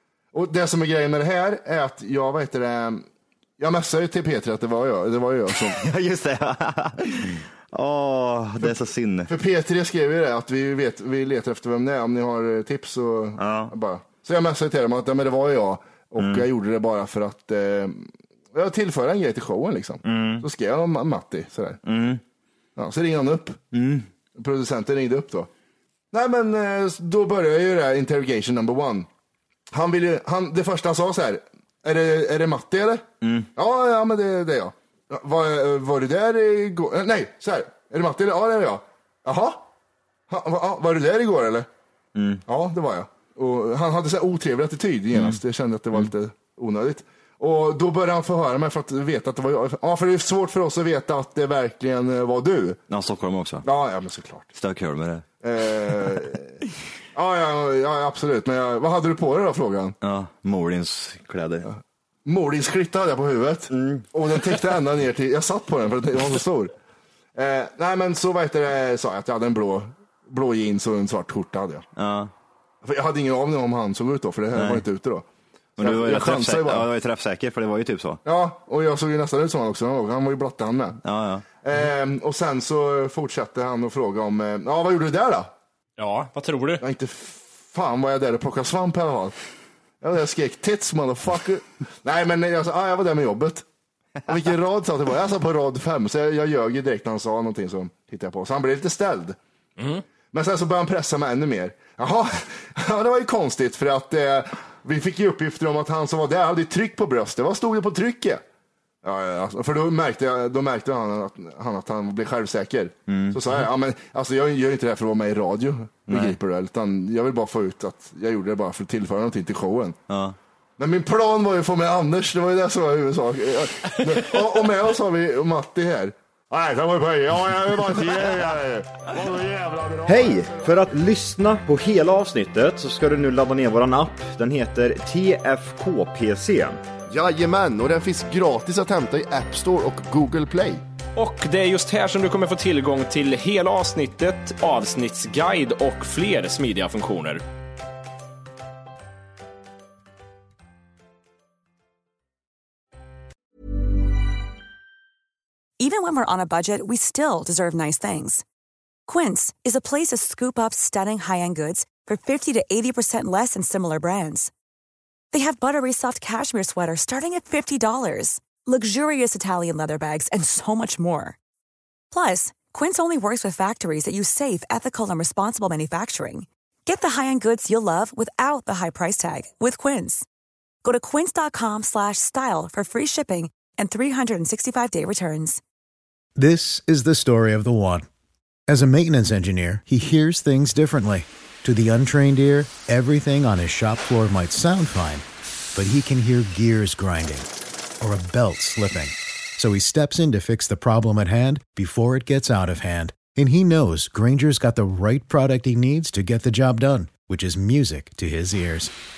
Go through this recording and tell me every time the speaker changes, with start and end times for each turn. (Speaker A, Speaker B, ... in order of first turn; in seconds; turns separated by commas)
Speaker A: 0.3-3.0, Speaker A: 3.6-5.8, Speaker B: 5.8-9.3, Speaker A: 8.6-21.8, Speaker B: 13.4-13.7, Speaker B: 16.2-16.4, Speaker B: 20.0-20.4, Speaker B: 21.8-22.2, Speaker A: 22.8-23.6, Speaker B: 23.7-24.1, Speaker A: 24.3-25.5, Speaker A: 26.1-29.1, Speaker A: 29.7-39.7, Speaker B: 33.2-33.5, Speaker A: 40.3-41.7, Speaker B: 42.1-42.4, Speaker A: 42.5-52.8, Speaker B: 52.9-53.6, Speaker A: 53.6-54.5, Speaker B: 54.5-55.2, Speaker A: 55.4-56.5, Speaker A: 57.1-60.0, Speaker B: 60.0-61.7, Speaker A: 61.7-66.7, Speaker B: 63.7-64.0, Speaker A: 67.3-71.8, Speaker B: 72.0-72.3, Speaker A: 72.8-75.3, Speaker B: 74.5-74.8, Speaker B: 75.8-78.2, Speaker A: 75.8-76.9, Speaker A: 78.2-81.0, Speaker B: 81.0-81.4, Speaker A: 81.6-85.5, Speaker C: 86.0-86.8, Speaker A: 86.8-89.3, Speaker A: 90.0-93.7, Speaker A: 94.3-99.4, Speaker C: 99.8-100.0, Speaker A: 100.3-108.4, Speaker A: 109.0-120.0, Speaker B: 113.1-113.6, Speaker B: 116.1-116.4, Speaker B: 120.1-120.3, Speaker A: 120.8-130.8, Speaker B: 130.1-136.8, Speaker A: 137.1-140.8, Speaker C: 141.2-147.4, Speaker D: 155.8-158.4, Speaker D: 159.1-164.5, Speaker D: 165.3-171.3, Speaker D: 172.1-180.2, Speaker D: 180.8-185.6, Speaker E: 186.4-188.1, Speaker E: 188.7-197.5, Speaker E: 198.0-208.9